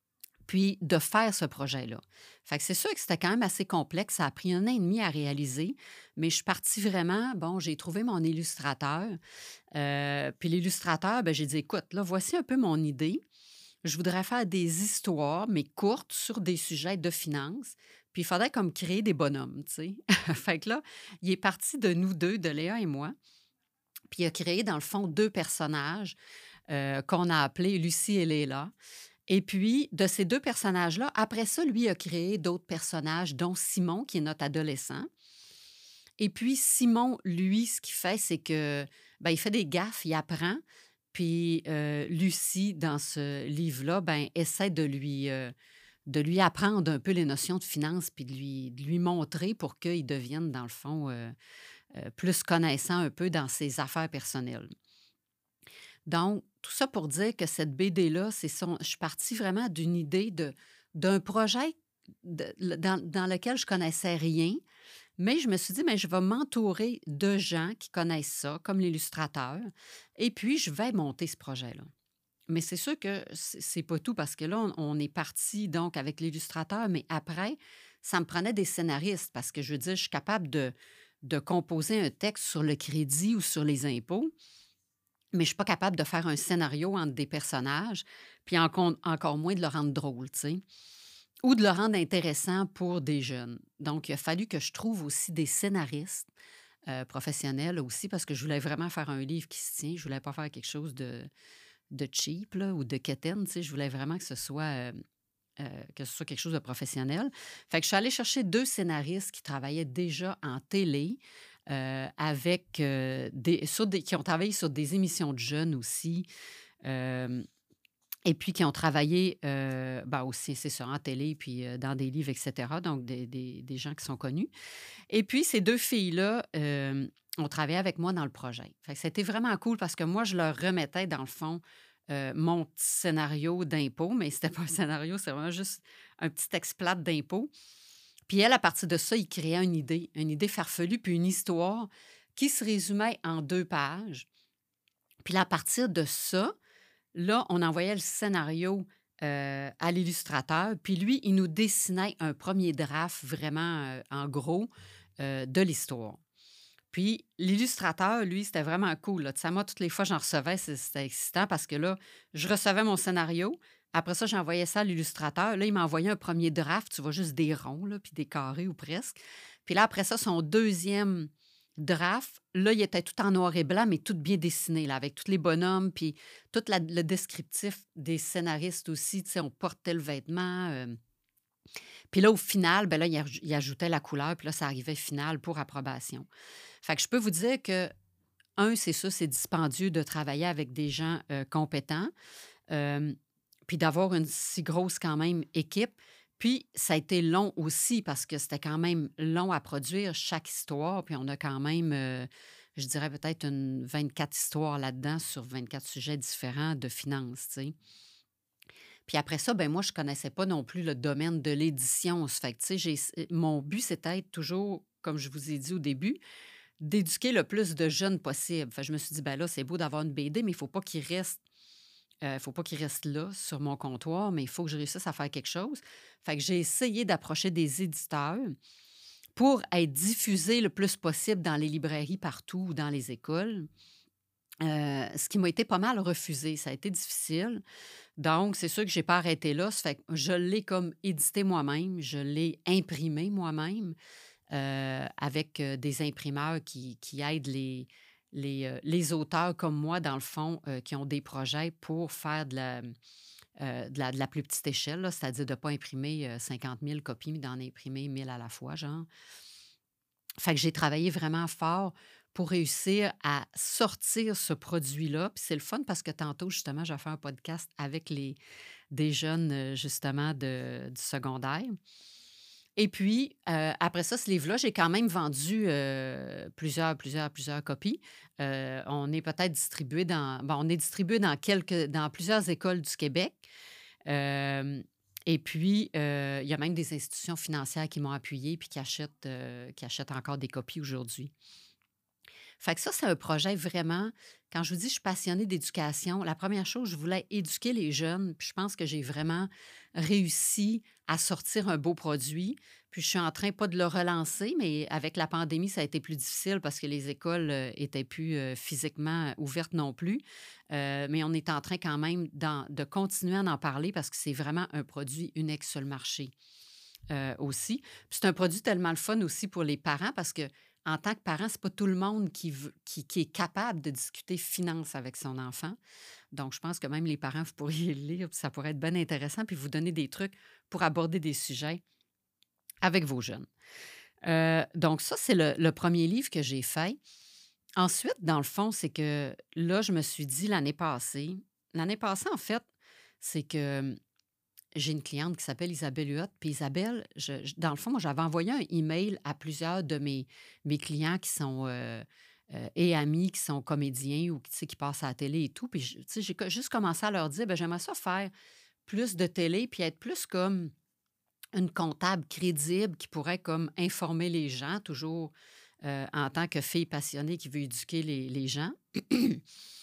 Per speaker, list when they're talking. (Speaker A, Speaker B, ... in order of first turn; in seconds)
Speaker A: 0.5-9.2, 9.7-13.2, 13.8-23.1, 24.1-26.1, 26.7-28.7, 29.3-35.1, 36.2-40.6, 41.1-45.5, 46.1-51.3, 51.9-54.7, 56.1-64.6, 65.2-71.9, 72.5-84.3, 85.3-90.6, 91.4-96.3, 96.9-101.3, 101.9-105.0, 105.6-116.3, 116.8-117.4, 118.2-124.5, 125.1-137.5, 138.3-144.3, 145.2-146.5, 147.1-156.2, 156.9-181.0, 182.1-186.3, 186.8-187.9, 188.6-192.1, 192.7-193.2, 193.7-207.7, 209.1-216.2, 216.8-221.4, 222.2-228.5, 229.3-233.7, 234.6-237.6, 238.2-243.9, 244.5-252.9, 253.6-259.1, 260.4-268.4, 268.9-271.7, 272.8-283.4, 284.1-291.3, 292.6-316.3, 317.1-325.8, 326.3-331.8, 332.8-333.5, 334.2-337.0, 337.8-342.6, 343.2-344.0, 344.7-358.3, 358.9-360.7, 361.5-369.4